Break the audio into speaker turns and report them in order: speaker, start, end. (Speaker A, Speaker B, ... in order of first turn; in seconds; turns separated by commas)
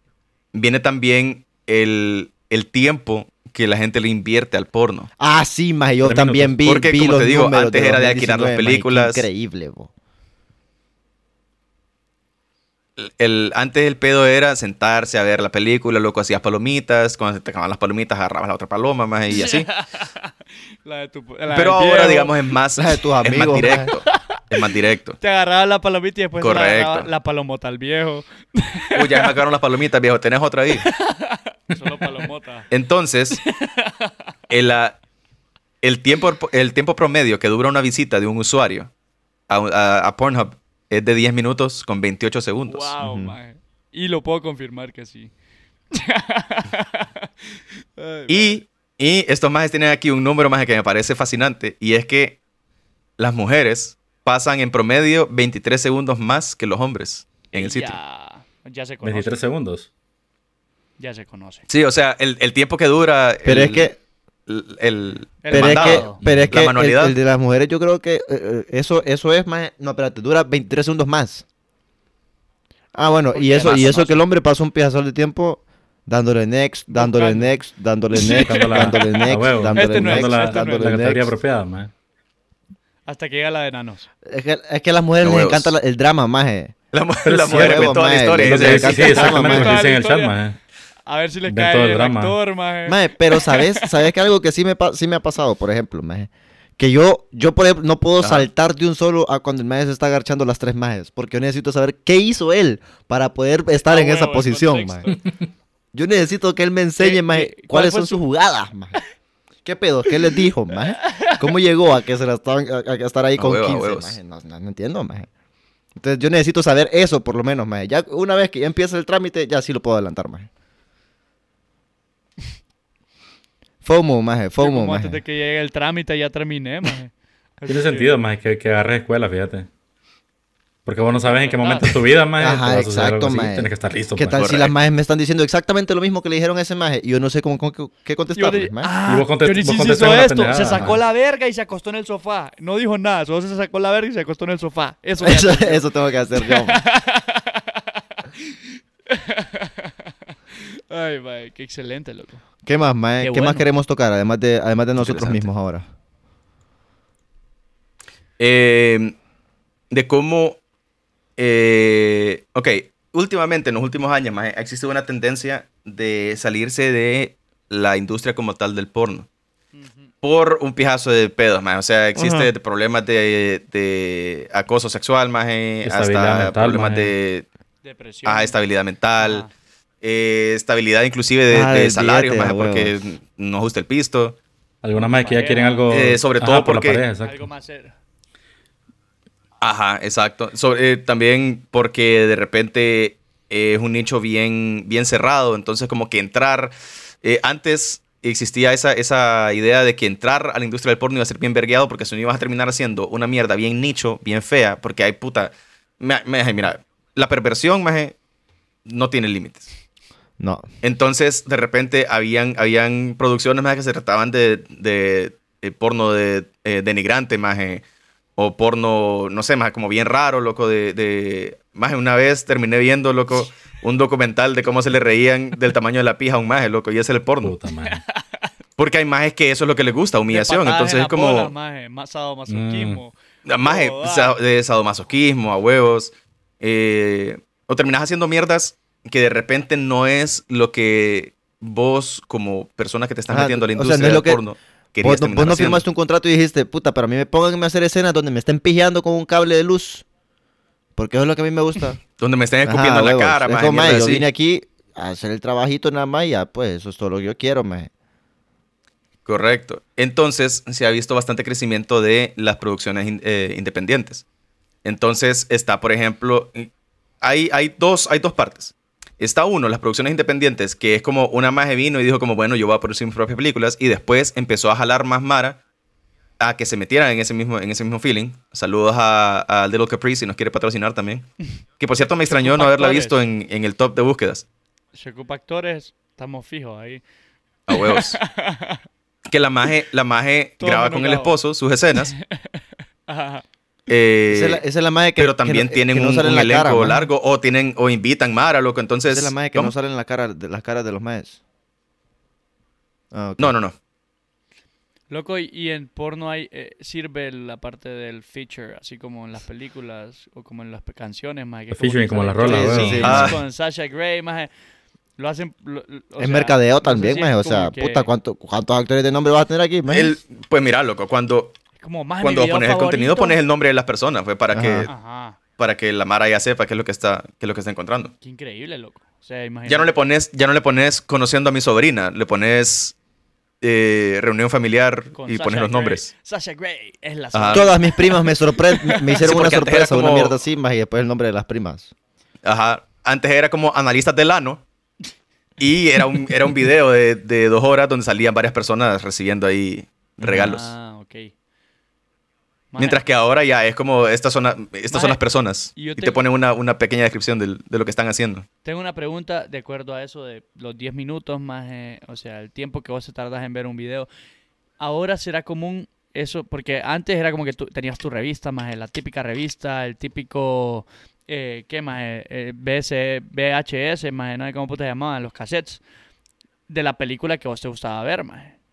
Speaker A: 0.5-5.1, Speaker B: 5.2-9.9, Speaker C: 6.0-6.6, Speaker A: 6.7-9.3, Speaker A: 13.0-19.7, Speaker D: 19.3-22.3, Speaker A: 21.5-25.2, Speaker B: 22.8-23.9, Speaker D: 25.2-29.4, Speaker A: 26.4-27.1, Speaker A: 28.9-30.9, Speaker D: 30.7-32.7, Speaker A: 32.7-33.4, Speaker D: 33.3-34.3, Speaker A: 34.5-35.0, Speaker A: 35.8-38.9, Speaker A: 39.5-42.9, Speaker D: 42.7-45.3, Speaker B: 43.0-43.4, Speaker D: 45.9-48.6, Speaker A: 48.3-52.4, Speaker A: 53.2-58.0, Speaker D: 57.5-59.3, Speaker C: 59.0-59.9, Speaker D: 61.0-61.6, Speaker A: 61.7-63.9, Speaker B: 63.4-64.0, Speaker A: 64.5-67.2, Speaker D: 65.4-66.2, Speaker B: 65.5-71.4, Speaker C: 66.2-66.5, Speaker B: 72.9-81.3, Speaker D: 73.3-74.2, Speaker A: 73.6-74.0, Speaker D: 76.9-77.5, Speaker D: 78.2-81.0, Speaker C: 78.4-81.9, Speaker D: 83.1-84.1, Speaker B: 84.3-86.7, Speaker A: 85.2-85.7, Speaker A: 86.9-89.3, Speaker C: 87.2-90.6, Speaker B: 87.5-89.8, Speaker D: 89.0-90.4, Speaker D: 91.1-94.1, Speaker C: 91.5-92.4, Speaker B: 92.9-105.1, Speaker A: 98.2-98.5, Speaker D: 103.9-105.2, Speaker B: 105.9-109.0, Speaker D: 107.0-108.2, Speaker B: 109.7-115.3, Speaker D: 110.9-111.5, Speaker A: 113.4-114.2, Speaker B: 116.0-120.5, Speaker B: 123.8-125.2, Speaker D: 124.6-128.1, Speaker C: 127.7-129.7, Speaker C: 130.9-134.5, Speaker D: 131.1-132.0, Speaker B: 132.4-138.9, Speaker A: 134.4-134.7, Speaker D: 138.4-148.6, Speaker C: 139.1-141.0, Speaker B: 145.2-146.8, Speaker D: 149.1-152.4, Speaker B: 152.7-155.9, Speaker D: 153.2-153.7, Speaker A: 155.0-155.5, Speaker A: 158.4-159.2, Speaker A: 159.9-160.6, Speaker A: 161.4-169.3, Speaker D: 169.7-170.1, Speaker A: 170.2-177.4, Speaker B: 172.2-172.5, Speaker C: 175.8-177.1, Speaker D: 177.8-178.6, Speaker A: 178.2-179.4, Speaker D: 179.2-179.5, Speaker A: 180.0-184.4, Speaker B: 181.5-183.0, Speaker C: 184.8-187.4, Speaker D: 184.9-185.9, Speaker A: 185.9-187.0, Speaker D: 187.2-187.9, Speaker A: 189.6-208.2, Speaker A: 208.9-209.7, Speaker B: 210.4-210.7, Speaker A: 210.8-217.8, Speaker A: 218.4-227.6, Speaker C: 227.4-228.0, Speaker D: 227.8-228.5, Speaker A: 228.8-231.5, Speaker D: 230.3-234.3, Speaker C: 232.5-233.0, Speaker A: 233.4-245.8, Speaker B: 243.3-244.4, Speaker B: 245.0-250.1, Speaker B: 250.9-252.0, Speaker A: 252.2-254.3, Speaker B: 252.7-257.9, Speaker A: 259.3-264.2, Speaker A: 264.9-266.7, Speaker A: 267.2-275.6, Speaker A: 276.4-281.3, Speaker A: 281.8-284.4, Speaker D: 282.3-283.2, Speaker D: 284.9-287.0, Speaker A: 287.7-288.2, Speaker D: 287.7-288.8, Speaker A: 289.3-292.1, Speaker D: 290.6-291.4, Speaker D: 291.9-293.4, Speaker A: 293.9-294.6, Speaker B: 294.3-297.1, Speaker A: 295.2-299.7, Speaker B: 299.1-301.4, Speaker B: 303.1-303.5, Speaker A: 303.4-303.7, Speaker D: 305.1-314.5, Speaker C: 311.7-313.4, Speaker B: 312.4-313.4, Speaker A: 313.0-313.4, Speaker D: 315.2-318.1, Speaker B: 316.2-320.1, Speaker A: 319.9-321.6, Speaker D: 321.8-323.4, Speaker A: 322.2-324.9, Speaker B: 324.5-324.9, Speaker D: 324.9-325.4, Speaker A: 325.6-328.1, Speaker D: 328.2-329.9, Speaker A: 329.6-332.9, Speaker A: 333.6-336.1, Speaker D: 335.1-339.2, Speaker A: 337.3-337.7, Speaker B: 337.5-341.9, Speaker A: 339.2-340.4, Speaker A: 342.4-344.6, Speaker A: 345.6-350.7, Speaker D: 350.2-351.3, Speaker D: 352.7-353.0, Speaker A: 352.8-358.4, Speaker D: 354.9-355.2, Speaker D: 355.7-356.2, Speaker D: 358.6-364.1, Speaker D: 364.8-375.8, Speaker D: 376.7-378.5